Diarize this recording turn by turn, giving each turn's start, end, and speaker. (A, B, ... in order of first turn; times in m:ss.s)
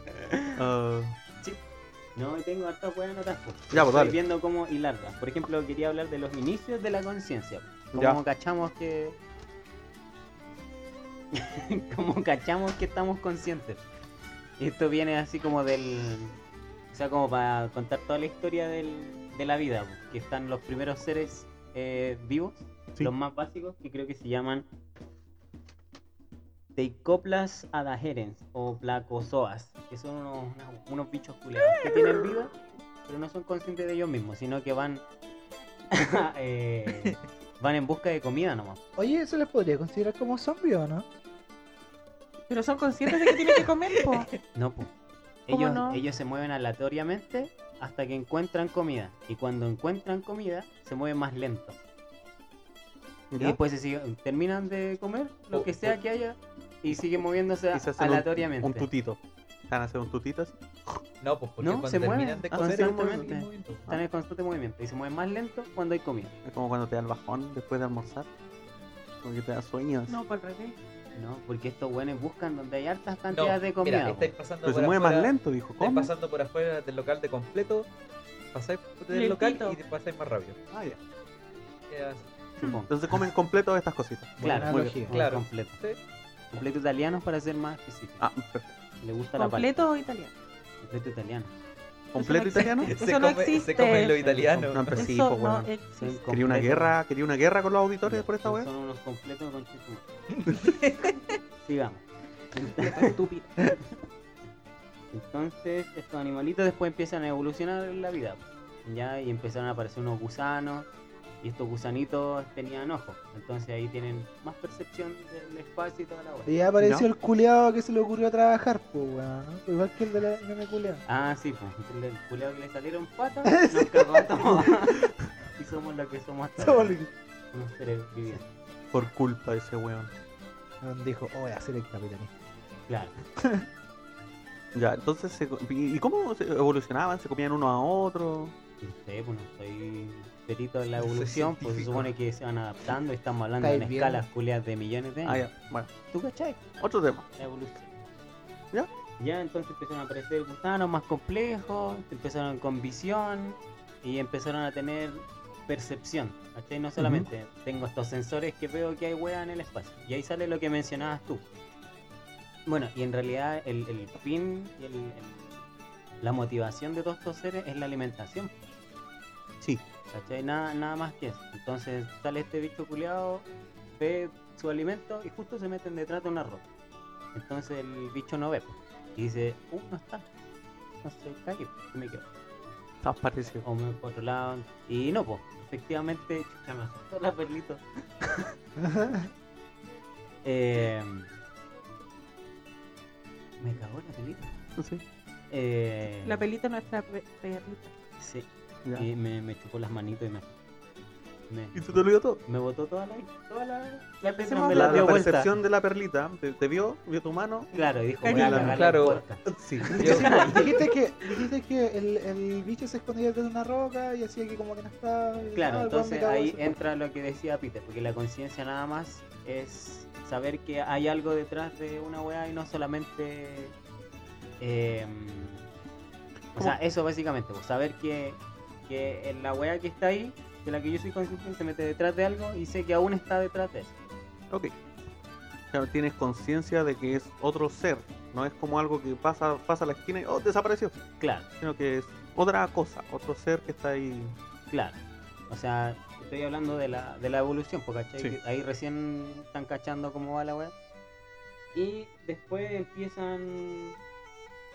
0:00.5-0:01.2 A
0:02.2-0:09.2 B
0:03.7-0:04.2 A
0:07.9-0:08.2 A
0:11.3-0:13.8 B
0:14.6-0:16.4 B
0:16.9-0:24.7 B
0:26.8-0:32.5 B
0:33.1-0:35.0 B
0:35.9-0:38.8 B
0:39.0-0:41.1 C
0:42.5-0:44.3 D
0:44.5-0:44.9 B
0:45.5-0:51.8 B
0:45.5-0:46.0 D
0:53.3-0:53.6 A
0:53.4-0:58.9 B
0:55.5-0:56.0 A
0:57.7-1:01.0 A
1:01.2-1:03.9 E
1:01.6-1:06.3 B
1:02.5-1:03.3 A
1:06.4-1:08.3 A
1:09.2-1:10.2 A
1:10.1-1:10.8 D
1:11.1-1:14.3 B
1:13.3-1:17.9 E
1:14.6-1:16.1 A
1:18.5-1:20.6 E
1:19.1-1:19.8 D
1:20.7-1:21.0 A
1:21.9-1:22.3 E
1:22.6-1:22.9 B
1:22.9-1:25.0 A
1:24.4-1:25.1 C
1:24.4-1:25.8 B
1:25.1-1:26.0 E
1:26.5-1:28.3 B
1:28.2-1:28.7 A
1:29.0-1:29.9 B
1:29.4-1:30.3 D
1:30.8-1:31.5 B
1:32.1-1:32.9 A
1:32.2-1:34.4 D
1:32.8-1:35.0 E
1:34.6-1:35.7 A
1:35.0-1:36.2 D
1:36.0-1:37.0 B
1:36.3-1:38.7 A
1:38.0-1:40.1 B
1:40.5-1:41.3 E
1:41.6-1:43.2 B
1:43.0-1:43.5 D
1:45.1-1:50.9 B
1:51.4-1:56.6 B
1:56.4-2:01.0 C
1:56.8-1:57.1 A
2:01.1-2:05.0 B
2:03.5-2:04.7 C
2:05.6-2:07.0 B
2:06.6-2:07.1 C
2:07.5-2:08.5 B
2:08.9-2:10.1 A
2:10.8-2:12.3 C
2:12.9-2:13.2 B
2:13.4-2:13.6 C
2:14.7-2:18.6 A
2:18.8-2:25.5 B
2:21.0-2:22.1 E
2:23.6-2:24.2 C
2:25.2-2:25.9 A
2:26.1-2:26.6 B
2:26.8-2:27.3 A
2:27.4-2:28.0 B
2:29.2-2:41.4 B
2:37.0-2:37.3 A
2:42.6-2:45.6 B
2:46.2-2:48.6 B
2:50.1-2:53.5 B
2:54.0-2:56.6 B
2:57.3-3:00.3 B
3:01.0-3:02.3 B
3:03.0-3:03.6 A
3:03.6-3:08.5 B
3:08.8-3:09.3 C
3:10.4-3:11.3 B
3:13.6-3:14.5 B
3:14.8-3:15.0 A
3:15.5-3:16.4 B
3:16.2-3:17.9 D
3:18.2-3:20.5 B
3:21.5-3:25.5 B
3:21.7-3:22.4 A
3:24.4-3:25.2 D
3:24.7-3:27.7 A
3:27.7-3:30.9 B
3:28.2-3:28.8 D
3:28.2-3:28.8 A
3:28.6-3:29.3 E
3:29.4-3:30.3 A
3:29.9-3:30.6 E
3:30.1-3:36.8 C
3:35.6-3:43.7 B
3:44.6-3:45.7 B
3:46.6-3:53.9 B
3:55.7-4:01.0 A
4:01.2-4:01.5 B
4:01.6-4:04.4 A
4:04.7-4:05.0 B
4:05.5-4:10.7 B
4:11.7-4:14.0 B